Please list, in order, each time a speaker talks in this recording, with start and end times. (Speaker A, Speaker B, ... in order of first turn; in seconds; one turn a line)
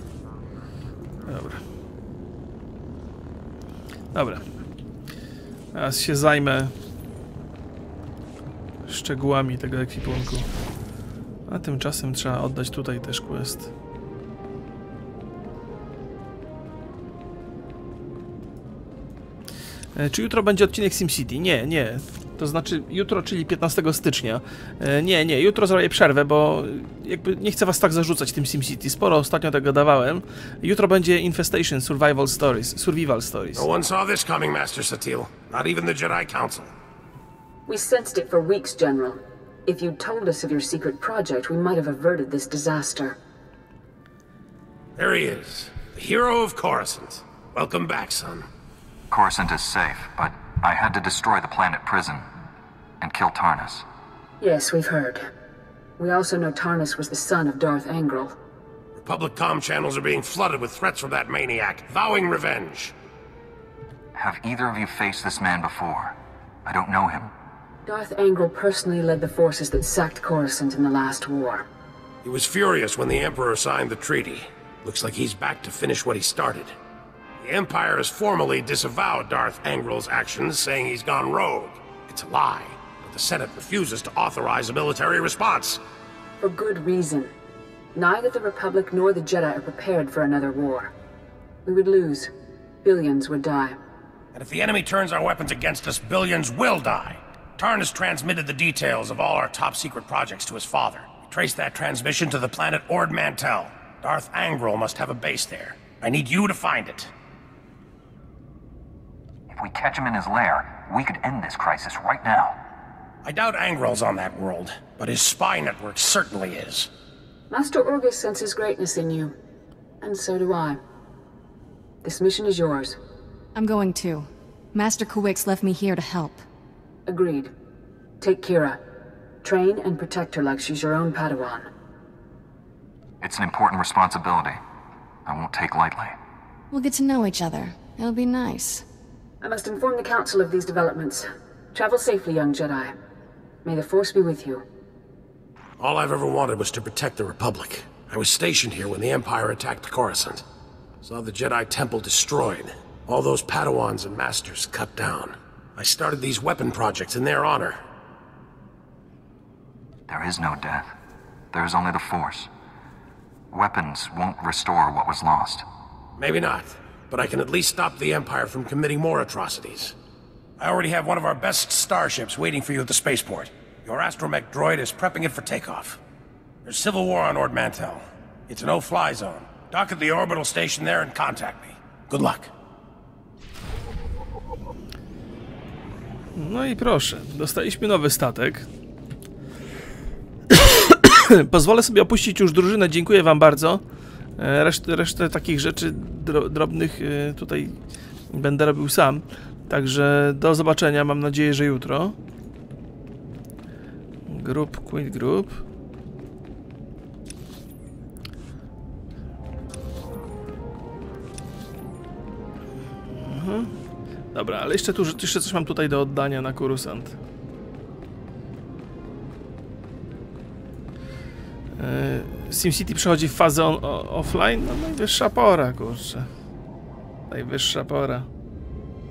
Speaker A: 1.2-1.6
Speaker A: 4.1-4.5
Speaker A: 5.7-6.7
Speaker A: 8.8-10.5
Speaker A: 11.5-13.7
Speaker A: 19.9-33.6
Speaker B: 33.5-36.7
Speaker C: 37.7-43.1
Speaker B: 45.0-48.5
Speaker D: 49.1-52.2
Speaker D: 53.0-53.8
Speaker C: 54.4-55.2
Speaker C: 56.0-58.3
Speaker B: 59.0-62.9
Speaker D: 64.1-67.3
Speaker C: 67.8-71.7
Speaker B: 72.2-76.7
Speaker B: 77.4-85.8
Speaker C: 86.4-87.3
Speaker C: 87.9-90.9
Speaker C: 91.7-92.3
Speaker C: 92.8-93.8
Speaker B: 94.3-107.1
Speaker D: 109.5-112.6
Speaker B: 113.2-116.9
Speaker C: 117.5-119.3
Speaker C: 120.0-120.8
Speaker C: 122.0-123.0
Speaker E: 123.5-126.4
Speaker C: 127.1-127.5
Speaker C: 128.2-128.8
Speaker C: 129.4-131.7
Speaker D: 133.2-134.6
Speaker D: 135.2-136.2
Speaker E: 136.7-138.8
Speaker C: 139.4-142.9
Speaker C: 143.7-144.6
Speaker B: 145.8-150.4
Speaker B: 151.0-157.8
Speaker D: 160.1-160.9
Speaker D: 161.5-162.5
Speaker D: 163.5-165.7
Speaker B: 166.2-169.9
Speaker B: 170.6-176.0
Speaker B: 176.6-182.5
Speaker A: 186.3-188.7
Speaker A: 190.5-193.8
Speaker A: 194.4-197.8
Speaker A: 198.3-202.2
Speaker A: 204.3-205.6
Speaker A: 213.2-213.7
Speaker A: 214.3-217.2
Speaker A: 221.7-226.3
Speaker A: 227.3-228.3